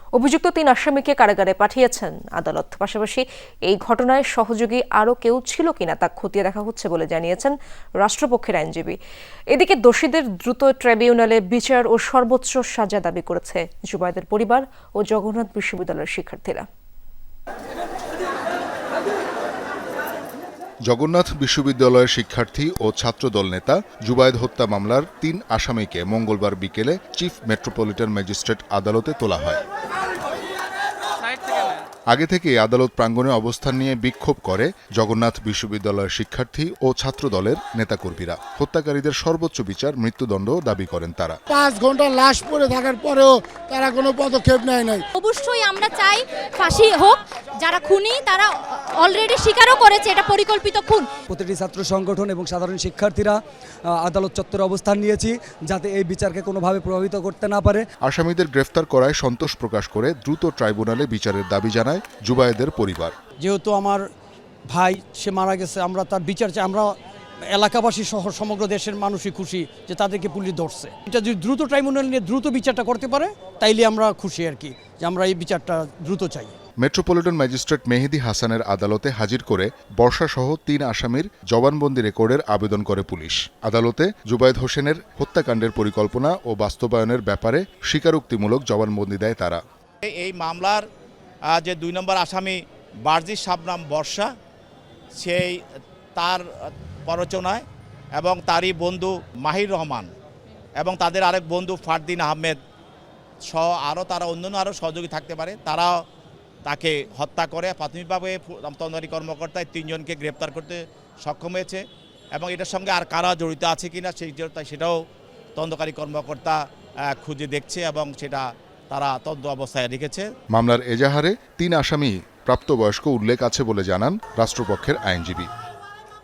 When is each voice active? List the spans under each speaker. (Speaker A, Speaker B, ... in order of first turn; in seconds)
Speaker A: 0.1-9.0, 9.5-16.6
Speaker B: 20.9-29.6, 32.1-41.4, 58.1-63.1, 76.8-89.6, 120.5-125.5
Speaker C: 41.5-45.0
Speaker D: 45.2-51.1
Speaker E: 51.3-53.4, 53.9-57.8
Speaker F: 63.4-64.0, 64.7-66.9, 67.5-76.5
Speaker G: 90.0-90.8, 91.5-94.3, 95.2-95.6, 96.2-97.7, 98.2-100.1, 100.8-102.6, 103.5-106.0, 106.7-111.8, 112.4-115.0, 115.6-116.6, 117.1-120.3